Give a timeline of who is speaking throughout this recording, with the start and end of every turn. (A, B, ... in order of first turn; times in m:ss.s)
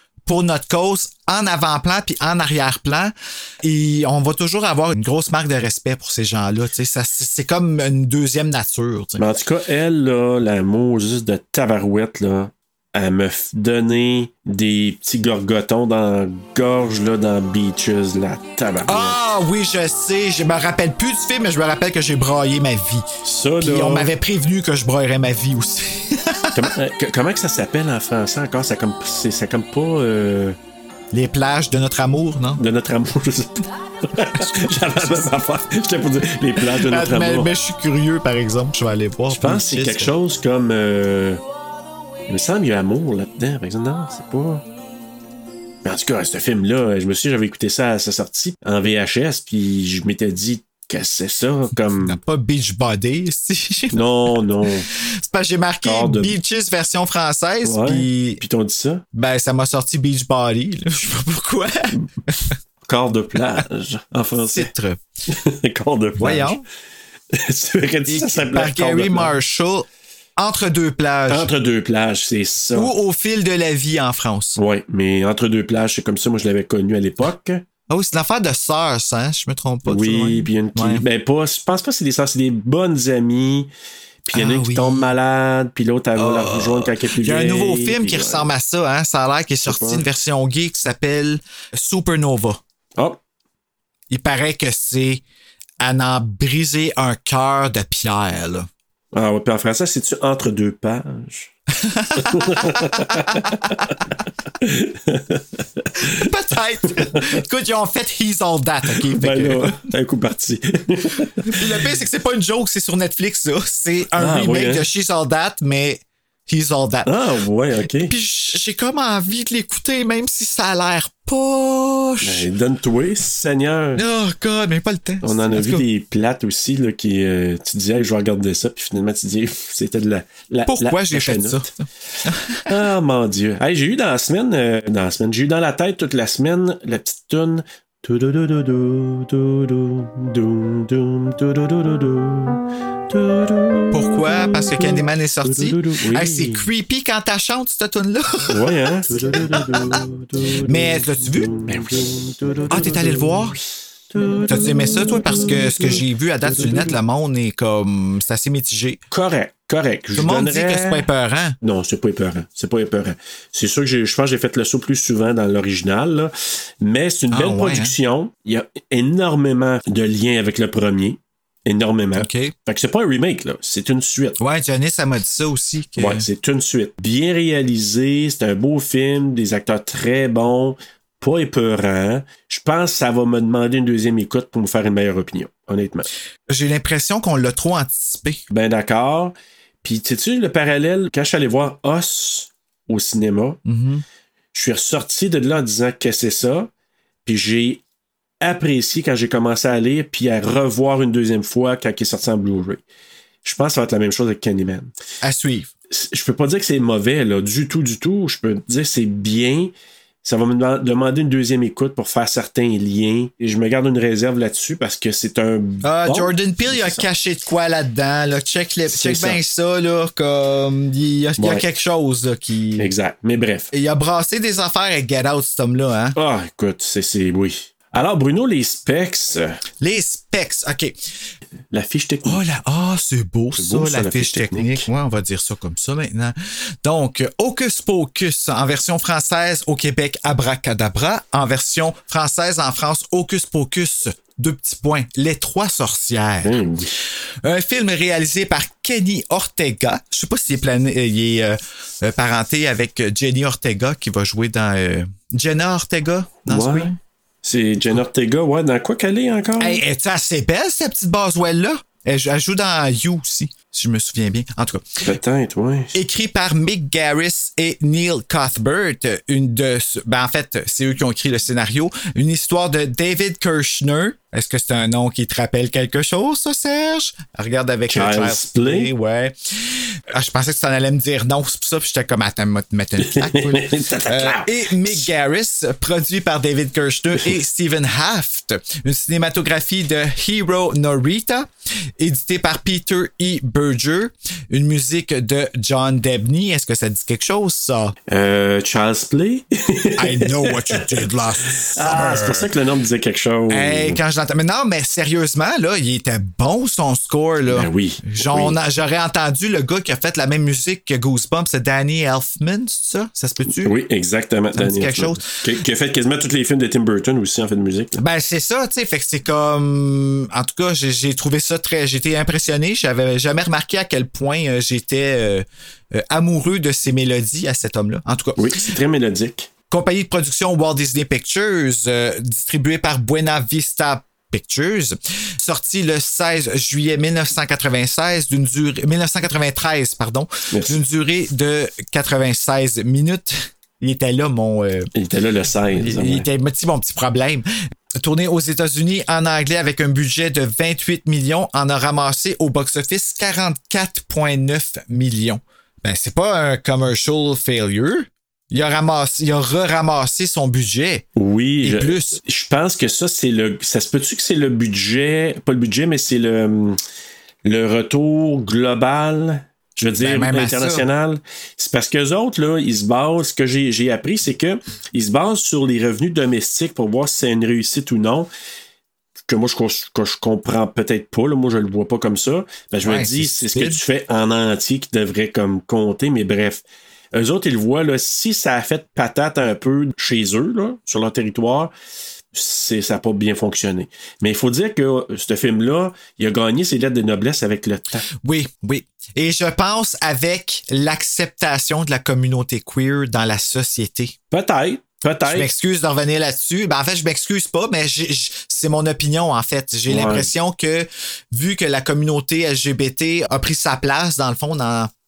0:00.2-0:09.2 A
0:09.2-0:19.2 B
0:18.9-0:23.0 A
0:23.2-0:24.1 B
0:23.6-0:26.7 A
0:26.5-0:30.6 B
0:31.1-0:32.6 A
0:32.6-0:37.5 B
0:34.2-0:35.3 A
0:36.6-0:40.1 A
0:39.3-0:41.4 B
0:42.3-0:44.6 B
0:45.8-0:52.2 B
0:52.0-0:54.1 A
0:53.9-0:54.9 B
0:55.2-0:58.4 A
0:55.8-0:56.4 B
0:57.6-0:59.0 B
0:59.1-1:02.6 A
1:02.8-1:04.7 B
1:04.4-1:05.0 A
1:05.3-1:06.6 B
1:06.2-1:06.6 A
1:07.3-1:09.4 B
1:08.1-1:09.8 A
1:10.4-1:11.5 A
1:11.3-1:12.9 B
1:12.7-1:14.6 A
1:14.6-1:17.6 B
1:17.9-1:21.0 A
1:19.8-1:23.7 B
1:24.2-1:28.5 B
1:24.3-1:25.1 A
1:26.2-1:32.6 A
1:29.6-1:30.0 B
1:34.1-1:35.2 A
1:35.8-1:38.7 A
1:39.1-1:41.5 B
1:41.8-1:43.7 A
1:42.1-1:43.9 B
1:44.6-1:46.2 B
1:46.0-1:49.9 A
1:47.0-1:47.4 B
1:48.9-1:51.8 B
1:51.5-1:57.1 A
1:54.2-1:54.9 B
1:57.0-1:58.1 B
1:58.0-2:02.5 A
2:02.2-2:04.0 B
2:04.0-2:05.8 A
2:05.2-2:11.7 B
2:10.7-2:12.6 A
2:12.6-2:26.7 B
2:23.9-2:30.0 A
2:28.5-2:33.5 B
2:30.6-2:31.6 A
2:32.7-2:33.6 A
2:34.1-2:37.0 B
2:34.4-2:39.0 A
2:39.1-2:41.1 B
2:40.2-2:41.6 A
2:41.6-2:54.4 B
2:47.3-2:47.9 A
2:52.2-2:52.5 A
2:54.4-2:56.2 A
2:56.0-3:06.1 B
3:06.5-3:08.4 A
3:08.5-3:13.6 B
3:13.6-3:14.0 A
3:14.5-3:16.7 B
3:17.2-3:17.8 B
3:18.4-3:22.8 B
3:23.4-3:24.9 B
3:25.2-3:25.7 A
3:25.9-3:37.1 B
3:35.8-3:42.9 A
3:38.9-3:39.4 B
3:41.4-3:41.6 B
3:42.8-3:43.7 B
3:43.7-3:46.2 A
3:46.1-3:49.6 B
3:49.8-3:51.0 A
3:51.7-3:52.4 B
3:52.2-4:06.6 A
3:53.6-3:54.9 B
4:06.4-4:06.9 B
4:07.4-4:17.0 A
4:16.4-4:19.8 B
4:19.6-4:25.0 A
4:25.0-4:26.0 B
4:25.9-4:51.5 A
4:37.9-4:38.9 B
4:43.0-4:45.1 B
4:52.0-4:57.9 A
4:58.1-5:04.0 B
5:00.0-5:02.5 A
5:03.5-5:13.8 A
5:07.5-5:08.6 B
5:13.5-5:18.0 B
5:14.5-5:15.2 A
5:18.0-5:28.6 A
5:28.4-5:29.5 B
5:29.7-5:44.9 A
5:40.5-5:40.8 B
5:44.9-5:46.3 B
5:45.7-6:01.0 A
6:01.2-6:06.8 B
6:01.6-6:02.2 A
6:07.4-6:18.3 B
6:10.0-6:10.8 A
6:19.3-6:31.7 B
6:22.8-6:23.8 A
6:32.3-6:38.0 B
6:38.2-6:44.1 A
6:44.3-6:45.5 B
6:45.2-6:54.9 A
6:49.9-6:50.3 B